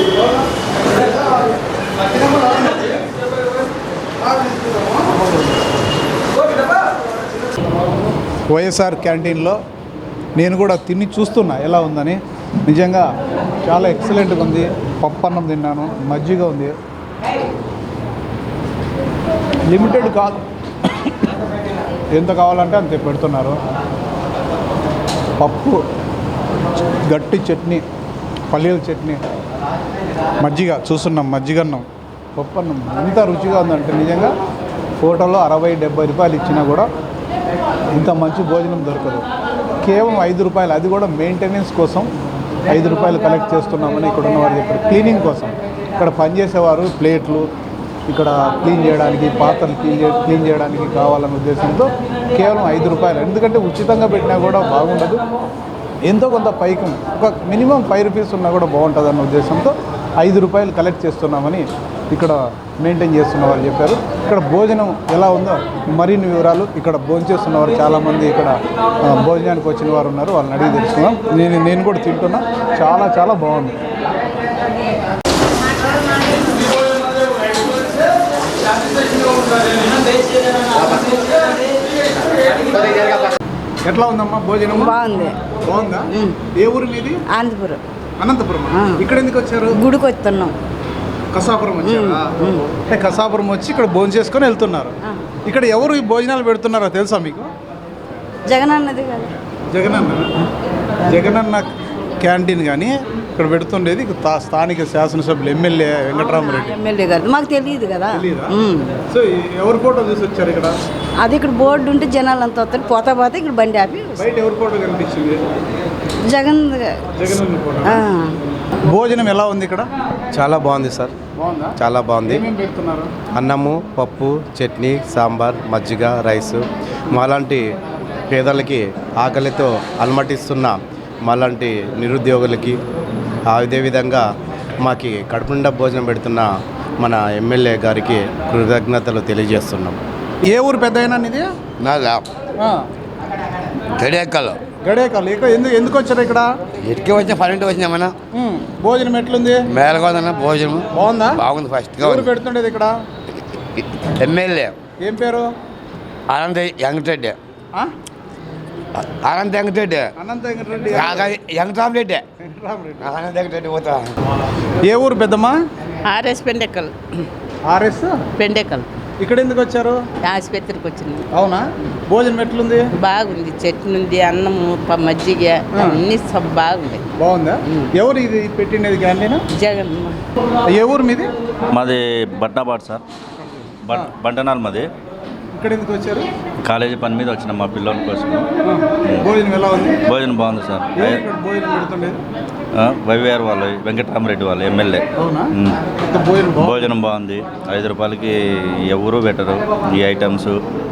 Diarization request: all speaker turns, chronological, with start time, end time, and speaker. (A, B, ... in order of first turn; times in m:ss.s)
0:08.5-0:09.6 A
0:10.4-0:13.1 A
0:13.6-0:16.7 A
0:19.7-0:20.4 A
0:22.1-0:23.6 A
0:25.4-0:25.8 A
0:27.0-0:27.8 A
0:28.5-0:29.2 A
0:30.4-0:31.8 A
0:32.4-0:34.3 A
0:35.0-0:36.9 A
0:37.9-0:39.2 A
0:39.8-0:42.1 A
0:42.7-0:47.4 A
0:48.1-0:55.2 A
0:56.0-1:13.7 A
1:23.8-1:25.0 A
1:24.7-1:25.4 B
1:25.6-1:27.2 A
1:27.3-1:27.8 B
1:28.2-1:29.8 A
1:28.7-1:29.0 B
1:29.7-1:30.5 B
1:31.3-1:37.5 A
1:31.8-1:32.6 B
1:38.5-1:39.3 B
1:39.7-1:40.3 A
1:41.0-1:41.7 A
1:42.2-1:46.8 A
1:46.3-1:49.0 B
1:48.1-1:50.8 A
1:51.2-1:54.2 B
1:54.1-1:55.4 A
1:56.3-1:57.1 B
1:57.1-1:58.0 A
1:57.8-1:58.3 B
1:58.8-1:59.9 A
2:00.3-2:01.1 C
2:01.3-2:03.1 A
2:01.8-2:02.4 C
2:03.3-2:06.6 C
2:07.1-2:07.6 C
2:08.3-2:10.7 C
2:11.2-2:12.8 C
2:13.5-2:14.2 C
2:14.8-2:16.5 C
2:17.0-2:20.0 C
2:20.4-2:21.5 A
2:21.8-2:22.2 D
2:22.6-2:22.8 A
2:24.0-2:24.6 D
2:24.8-2:26.5 A
2:26.8-2:28.1 D
2:28.3-2:29.6 A
2:29.7-2:30.8 D
2:30.9-2:31.4 A
2:31.4-2:32.3 D
2:32.0-2:32.9 A
2:33.8-2:34.7 D
2:35.0-2:35.4 A
2:36.3-2:37.4 D
2:39.0-2:40.1 D
2:40.2-2:41.3 A
2:40.9-2:42.2 D
2:42.4-2:43.1 A
2:43.0-2:44.1 D
2:44.7-2:45.6 A
2:46.0-2:46.9 E
2:47.7-2:48.2 A
2:48.4-2:48.8 E
2:49.2-2:50.0 A
2:50.2-2:51.2 E
2:51.3-2:52.9 A
2:53.0-2:57.0 E
2:55.7-2:56.0 A
2:57.2-2:59.4 A
2:59.5-3:00.2 E
3:00.7-3:01.3 A
3:01.7-3:03.0 F
3:03.8-3:04.9 F
3:05.5-3:06.3 A
3:06.6-3:08.5 F
3:08.6-3:10.0 A
3:10.0-3:11.2 F
3:11.0-3:12.2 A
3:12.7-3:15.8 F
3:15.2-3:16.9 A
3:16.6-3:20.6 F